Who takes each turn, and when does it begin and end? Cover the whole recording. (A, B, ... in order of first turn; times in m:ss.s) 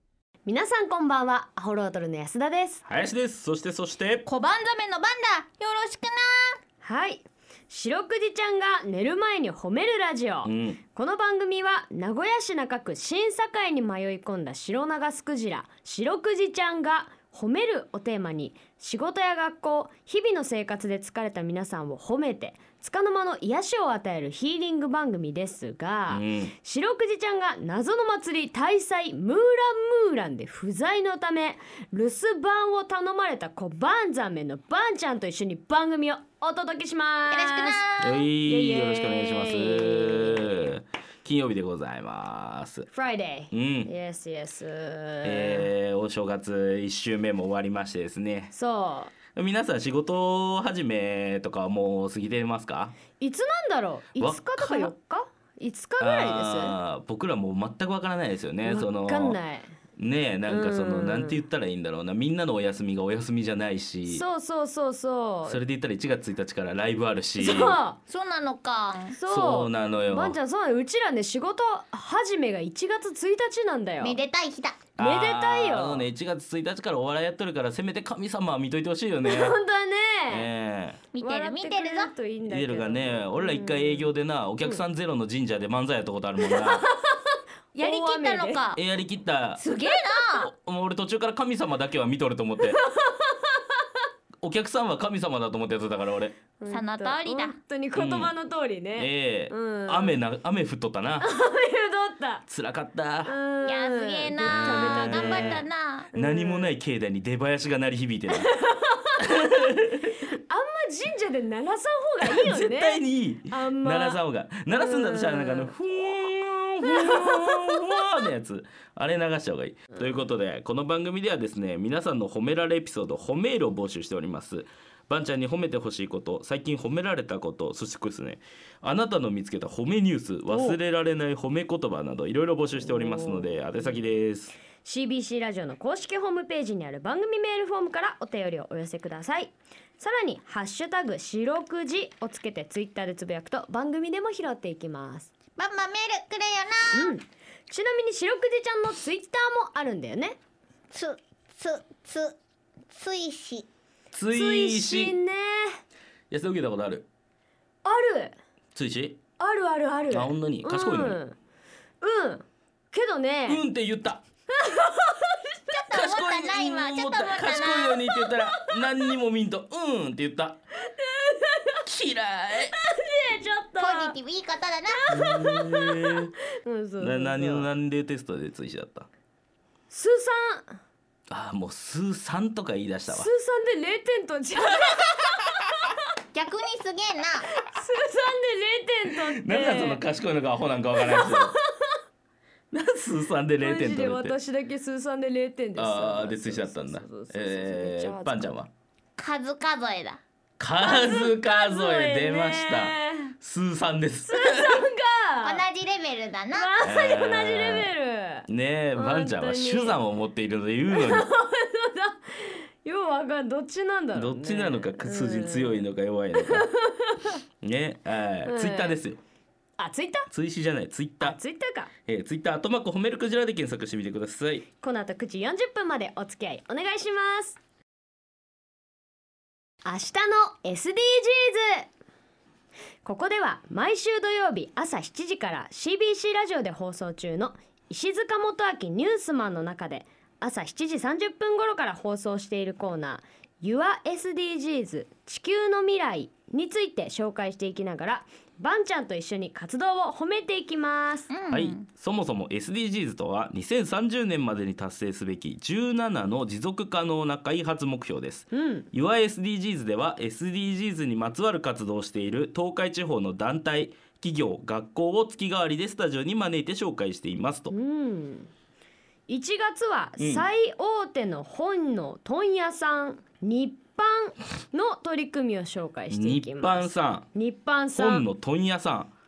0:00.4-0:02.8 A
0:02.8-0:04.3 B
0:04.2-0:06.6 C
0:06.8-0:37.8 A
0:10.4-0:10.8 B
0:26.1-0:26.5 B
0:37.3-0:38.2 C
0:38.0-0:42.9 B
0:38.4-0:40.7 A
0:42.9-0:45.7 A
0:43.5-0:43.9 B
0:45.2-0:48.5 B
0:48.5-0:49.1 A
0:49.3-0:53.0 B
0:53.2-0:56.8 A
0:54.2-0:54.9 B
0:56.0-0:59.4 B
0:58.6-0:59.7 A
1:00.0-1:04.2 B
1:00.5-1:01.4 A
1:04.1-1:05.6 A
1:05.4-1:07.8 B
1:07.4-1:08.0 A
1:08.1-1:09.1 C
1:09.1-1:14.2 A
1:09.3-1:10.4 B
1:14.0-1:14.8 C
1:15.0-1:16.1 A
1:15.0-1:19.6 B
1:19.2-1:20.5 A
1:20.3-1:21.0 B
1:21.1-1:22.1 C
1:21.2-1:24.8 A
1:22.4-1:26.9 B
1:26.4-1:28.6 A
1:27.8-1:28.8 C
1:28.7-1:29.6 B
1:29.6-1:30.5 C
1:30.3-1:32.8 B
1:32.6-1:33.8 A
1:34.4-1:36.4 B
1:36.6-1:40.2 A
1:36.7-1:37.6 C
1:37.9-1:38.3 B
1:39.0-1:41.3 B
1:41.2-1:42.4 A
1:42.5-1:43.3 B
1:43.2-1:46.7 A
1:43.6-1:46.1 C
1:44.5-1:48.5 B
1:48.3-1:49.7 A
1:49.2-1:50.2 B
1:50.2-1:55.7 A
1:52.2-2:14.5 B
1:56.8-1:57.8 A
2:10.5-2:10.8 A
2:12.8-2:14.0 A
2:14.8-2:25.3 A
2:25.6-2:27.1 C
2:26.9-2:30.4 A
2:30.9-2:32.4 C
2:32.9-2:33.7 C
2:34.1-2:35.2 B
2:34.3-2:35.8 A
2:36.3-2:37.0 B
2:37.8-2:38.4 A
2:38.7-2:39.2 B
2:39.4-2:41.4 A
2:40.1-2:41.2 B
2:42.0-2:43.6 A
2:43.4-2:44.2 B
2:44.5-2:45.8 A
2:45.7-2:48.0 C
2:45.9-2:50.6 B
2:48.1-2:49.0 A
2:50.9-2:51.8 A
2:51.8-2:52.8 B
2:52.6-2:54.2 A
2:53.8-2:55.0 C
2:54.9-2:57.7 A
2:55.1-2:56.3 B
2:57.0-2:59.1 B
2:59.9-3:00.8 A
3:01.3-3:03.3 B
3:03.1-3:06.0 A
3:06.3-3:07.5 C
3:07.6-3:10.0 A
3:09.1-3:11.5 B
3:11.0-3:12.0 A
3:12.7-3:14.4 B
3:13.6-3:18.6 A
3:15.8-3:18.7 B
3:19.2-3:20.2 C
3:20.6-3:24.9 B
3:20.8-3:23.3 A
3:24.3-3:25.6 A
3:25.4-3:26.7 C
3:26.5-3:30.0 A
3:26.8-3:27.9 B
3:28.5-3:31.3 B
3:30.9-3:35.8 A
3:34.1-3:36.7 B
3:36.4-3:37.4 A
3:37.6-3:39.2 B
3:38.4-3:39.0 A
3:39.8-3:40.3 A
3:40.3-3:41.4 B
3:41.2-3:41.9 A
3:42.1-3:44.6 B
3:44.8-3:47.6 A
3:49.8-3:51.9 A
3:53.0-4:11.3 A
4:11.3-4:11.8 C
4:11.5-4:27.7 B
4:18.5-4:18.9 A
4:27.7-4:28.5 A
4:29.3-4:38.3 A
4:30.2-4:30.4 B
4:36.1-4:37.3 B
4:37.9-4:39.1 B